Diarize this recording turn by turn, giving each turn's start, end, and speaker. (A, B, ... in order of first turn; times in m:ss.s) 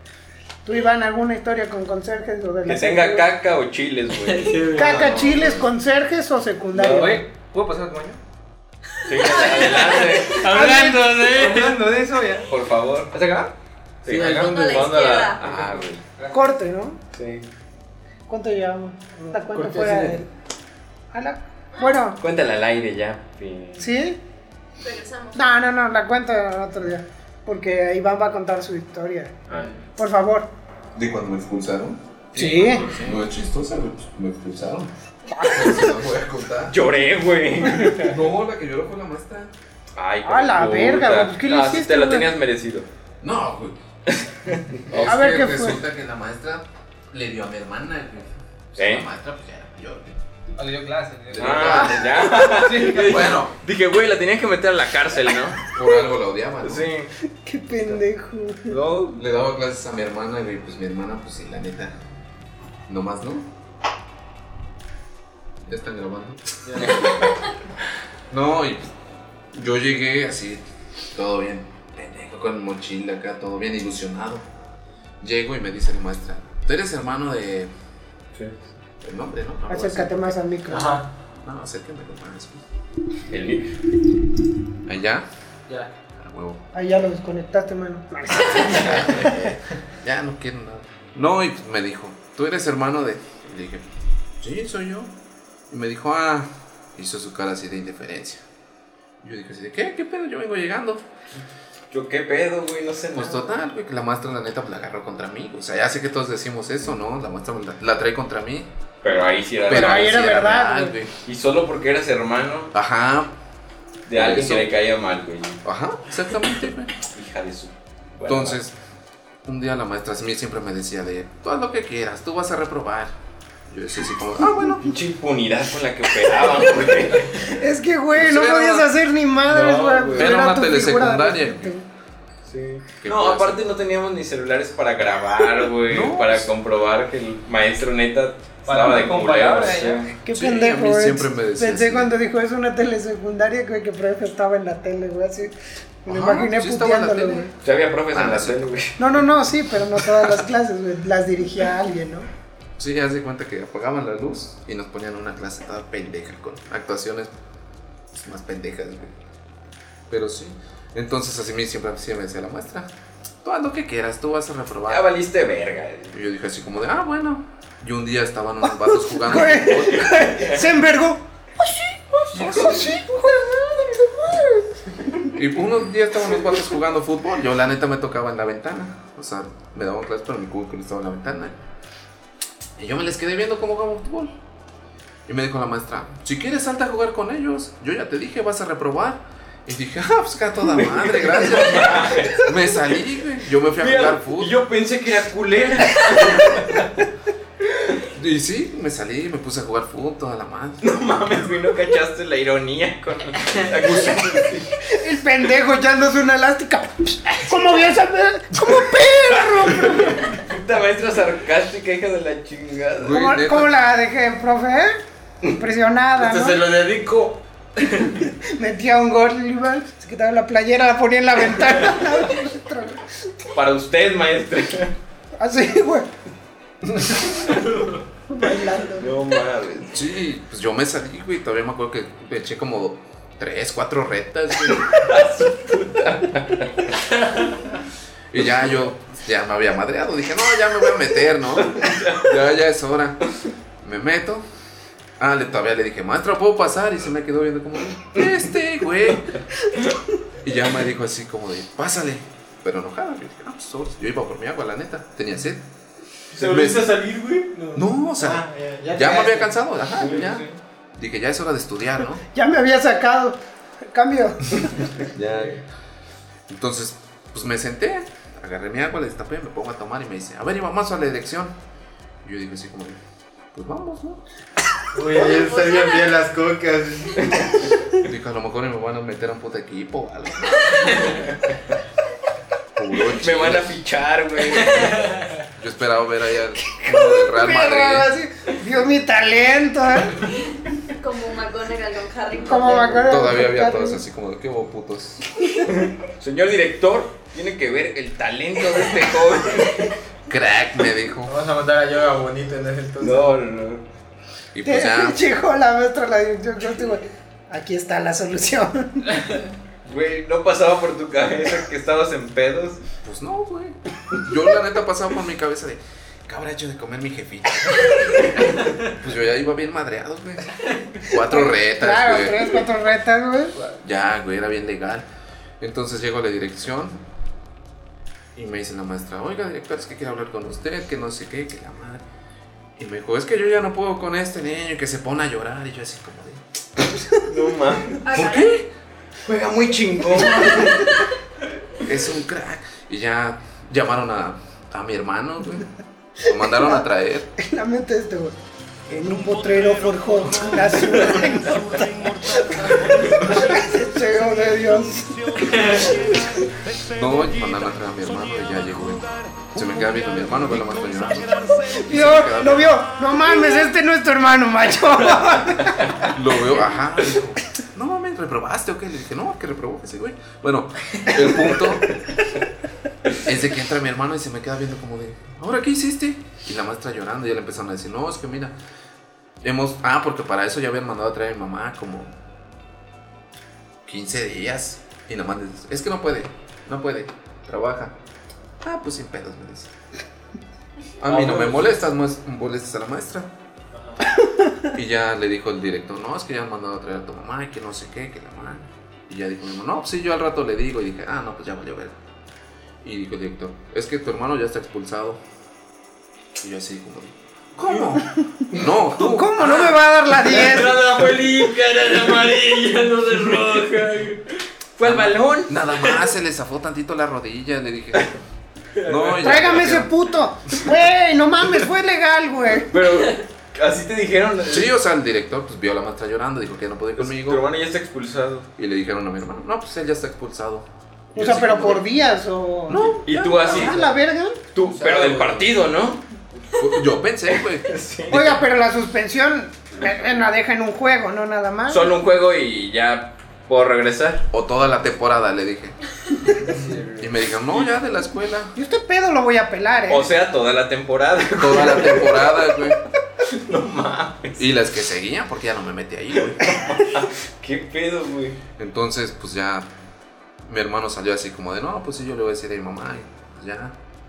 0:00.6-0:03.3 A
0:02.6-0:05.7 B
0:04.2-0:05.2 C
0:04.7-0:07.2 A
0:06.7-0:07.2 B
0:06.9-0:08.2 D
0:09.0-0:10.5 B
0:09.4-0:11.8 C
0:09.5-0:10.1 E
0:10.6-0:10.9 A
0:10.6-0:12.5 D
0:12.5-0:13.1 B
0:13.1-0:13.5 D
0:14.0-0:16.0 B
0:14.0-0:15.6 C
0:14.2-0:15.6 E
0:16.2-0:16.5 D
0:16.3-0:17.0 A
0:17.1-0:17.5 B
0:18.3-0:20.3 A
0:19.3-0:20.2 C
0:21.1-0:22.2 A
0:22.2-0:23.9 B
0:23.8-0:24.2 A
0:24.8-0:25.4 E
0:25.3-0:29.4 A
0:30.0-0:30.5 A
0:30.9-0:36.8 F
0:32.3-0:32.8 A
0:32.4-0:32.7 B
0:32.4-0:33.1 C
0:35.4-0:35.9 A
0:36.7-0:38.2 B
0:37.8-0:39.5 F
0:40.0-0:42.9 B
0:40.2-0:42.3 A
0:43.2-0:43.8 F
0:44.1-0:45.2 B
0:44.9-0:50.2 F
0:45.0-0:45.8 A
0:48.8-0:49.1 B
0:50.6-0:53.4 D
0:51.3-0:52.2 F
0:51.3-0:55.6 B
0:52.9-0:53.5 F
0:55.7-0:56.9 F
0:56.6-0:57.1 B
0:57.4-0:58.7 A
0:58.7-0:59.2 B
0:59.1-1:01.9 F
1:02.9-1:03.5 F
1:05.7-1:07.3 F
1:06.6-1:07.2 C
1:08.3-1:08.9 F
1:09.5-1:10.6 F
1:11.1-1:14.4 F
1:15.2-1:17.7 F
1:19.0-1:20.4 F
1:19.7-1:21.0 A
1:20.7-1:21.1 C
1:21.4-1:22.6 F
1:23.3-1:23.7 B
1:24.9-1:25.2 F
1:26.2-1:26.6 F
1:26.7-1:29.3 A
1:28.7-1:33.8 F
1:34.4-1:35.1 F
1:35.7-1:38.4 F
1:39.2-1:41.0 F
1:41.9-1:43.6 B
1:43.2-1:48.7 F
1:49.0-1:50.4 B
1:49.6-1:51.1 F
1:49.7-1:51.0 A
1:51.2-1:52.7 B
1:52.7-1:53.3 F
1:54.1-1:55.6 B
1:54.1-1:54.7 F
1:55.6-1:56.9 F
1:57.0-1:58.6 B
1:58.2-1:58.7 F
1:59.4-2:03.1 F
2:03.7-2:04.9 F
2:04.8-2:07.3 B
2:07.4-2:11.8 A
2:08.2-2:08.9 D
2:09.4-2:10.5 B
2:10.1-2:11.8 F
2:12.5-2:20.1 B
2:13.0-2:13.6 F
2:15.9-2:16.5 F
2:18.6-2:20.1 D
2:20.2-2:25.5 A
2:20.3-2:22.1 F
2:26.0-2:27.5 A
2:26.1-2:27.5 F
2:27.6-2:29.0 B
2:28.1-2:28.7 F
2:29.0-2:32.3 A
2:32.8-2:37.3 F
2:38.1-2:39.1 F
2:40.1-2:42.9 F
2:43.4-2:45.1 F
2:44.9-2:46.2 B
2:46.1-2:50.2 F
2:48.8-2:51.2 A
2:49.8-2:50.7 B
2:52.3-2:53.0 F
2:52.3-2:54.6 A
2:52.4-2:53.0 B
2:55.3-3:01.5 F
3:02.8-3:04.3 F
3:05.3-3:14.6 F
3:10.7-3:12.5 B
3:13.8-3:17.0 B
3:18.1-3:20.8 F
3:20.8-3:24.7 B
3:24.9-3:30.2 A
3:29.5-3:33.2 B
3:33.0-3:33.7 F
3:33.1-3:35.0 A
3:35.5-3:36.6 A
3:36.2-3:37.4 C
3:38.0-3:43.0 A
3:43.5-3:44.9 B
3:45.4-3:46.1 A
3:47.0-3:47.7 B
3:48.3-3:49.1 A
3:48.9-3:50.0 B
3:49.9-3:54.9 F
3:54.7-3:56.9 B
3:58.3-4:03.2 F
4:01.5-4:02.4 B
4:03.8-4:04.4 F
4:05.2-4:09.3 F
4:10.4-4:15.6 F
4:16.3-4:19.5 C
4:16.4-4:17.5 B
4:16.4-4:16.9 F
4:17.7-4:22.2 F
4:19.9-4:20.5 B
4:22.3-4:23.4 A
4:23.9-4:24.9 A
4:25.0-4:25.6 B
4:26.5-4:31.5 F
4:32.2-4:33.0 F
4:33.5-4:34.2 F
4:34.9-4:37.4 C
4:35.2-4:36.2 E
4:38.0-4:41.1 F
4:42.8-4:43.7 F
4:43.1-4:45.1 B
4:44.6-4:45.3 C
4:45.6-4:48.1 F
4:46.8-4:50.3 A
4:50.9-4:53.1 E
4:52.4-4:54.0 A
4:53.0-4:55.2 F
4:55.8-4:59.8 B
5:00.3-5:01.3 F
5:01.3-5:03.4 C
5:03.0-5:03.8 B
5:04.5-5:05.2 F
5:04.6-5:09.1 A
5:09.8-5:12.8 B
5:13.0-5:22.5 F
5:21.3-5:23.5 A
5:23.7-5:25.0 F
5:25.6-5:27.0 F
5:28.3-5:32.0 F
5:32.8-5:36.4 F
5:37.2-5:38.2 B
5:38.0-5:38.6 E
5:38.1-5:38.7 F
5:39.2-5:40.9 B
5:41.8-5:45.7 F
5:46.2-5:47.3 F
5:46.6-5:46.8 A
5:47.4-5:48.3 A
5:48.9-5:55.7 A
5:55.4-5:56.0 C
5:56.8-6:02.9 F
6:01.6-6:06.0 A
6:06.0-6:12.0 F
6:13.2-6:18.5 F
6:19.4-6:22.1 F
6:23.8-6:27.9 F
6:28.6-6:29.7 F
6:31.0-6:33.3 F
6:31.1-6:31.8 C
6:33.7-6:34.0 C
6:34.7-6:41.9 F
6:42.8-6:45.2 F
6:46.4-6:49.7 F
6:48.9-6:50.8 A
6:50.2-6:54.3 C
6:53.4-6:53.7 B
6:54.8-6:55.9 B
6:54.8-6:58.1 F
6:58.8-6:59.1 C
6:58.8-6:59.9 F
6:59.2-7:02.7 A
7:02.7-7:04.7 B
7:04.5-7:07.4 F
7:07.0-7:08.5 B
7:08.6-7:11.9 F
7:11.1-7:14.4 A
7:12.7-7:13.8 F
7:13.0-7:13.8 B
7:14.5-7:16.0 B
7:14.6-7:15.5 C
7:16.6-7:18.4 F
7:17.3-7:18.2 B
7:18.1-7:21.9 A
7:21.7-7:24.2 B
7:24.3-7:25.7 F
7:26.5-7:27.0 C
7:27.0-7:28.5 F
7:28.5-7:30.1 A
7:29.9-7:32.2 B
7:31.4-7:32.8 F
7:33.2-7:34.5 B
7:34.4-7:36.4 F
7:36.4-7:38.4 B
7:38.6-7:39.7 F
7:40.4-7:43.7 F